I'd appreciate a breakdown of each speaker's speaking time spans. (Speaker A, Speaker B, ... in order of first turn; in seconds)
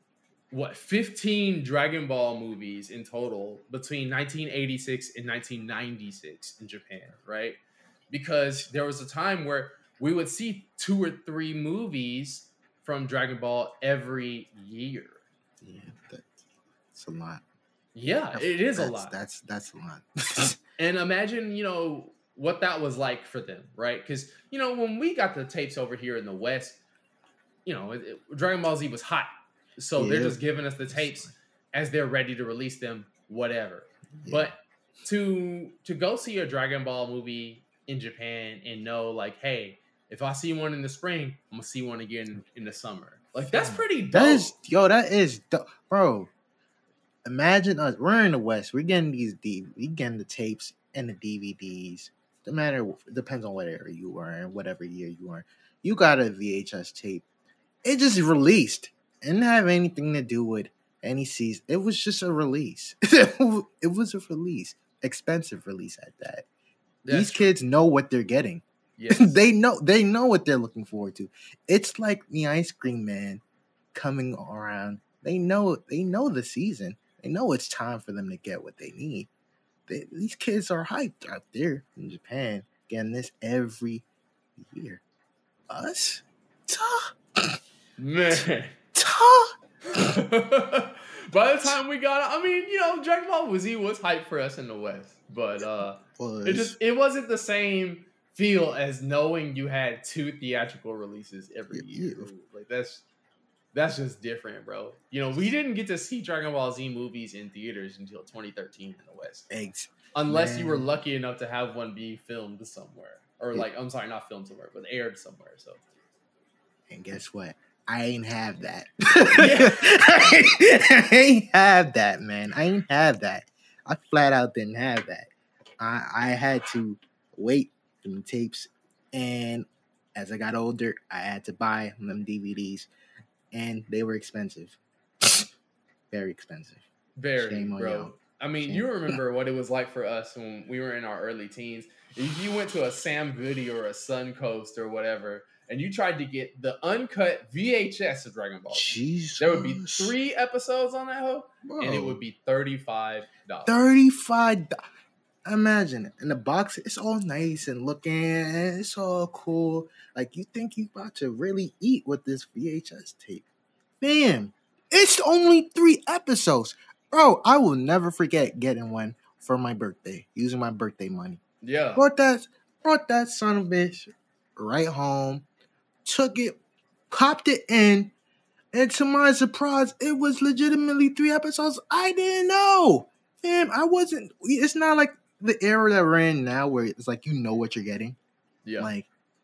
Speaker A: 0.5-15.2, 17.9-19.2, 20.8-26.8, 27.7-44.5, 67.0-67.5, 69.0-69.4, 88.0-88.8, 89.9-103.0, 103.7-109.5, 110.1-115.8, 119.3-119.9, 137.2-153.8, 171.6-172.1, 188.7-188.9
Speaker B: 15.6-16.4, 16.9-17.4, 18.3-20.6, 30.0-31.3, 34.2-34.5, 43.5-46.3, 47.2-57.3, 57.8-66.5, 67.1-73.4, 73.9-79.3, 79.9-84.1, 84.6-85.0, 85.7-87.6, 88.9-89.6, 95.6-96.8, 101.7-102.3, 109.5-110.9, 116.9-132.9, 133.5-135.4, 136.1-136.8, 137.4-139.2, 148.7-150.1, 151.7-152.2, 153.7-154.8, 155.4-163.5, 164.0-171.4, 171.9-175.5, 176.1-176.6, 177.1-178.1, 178.7-188.2, 188.8-189.1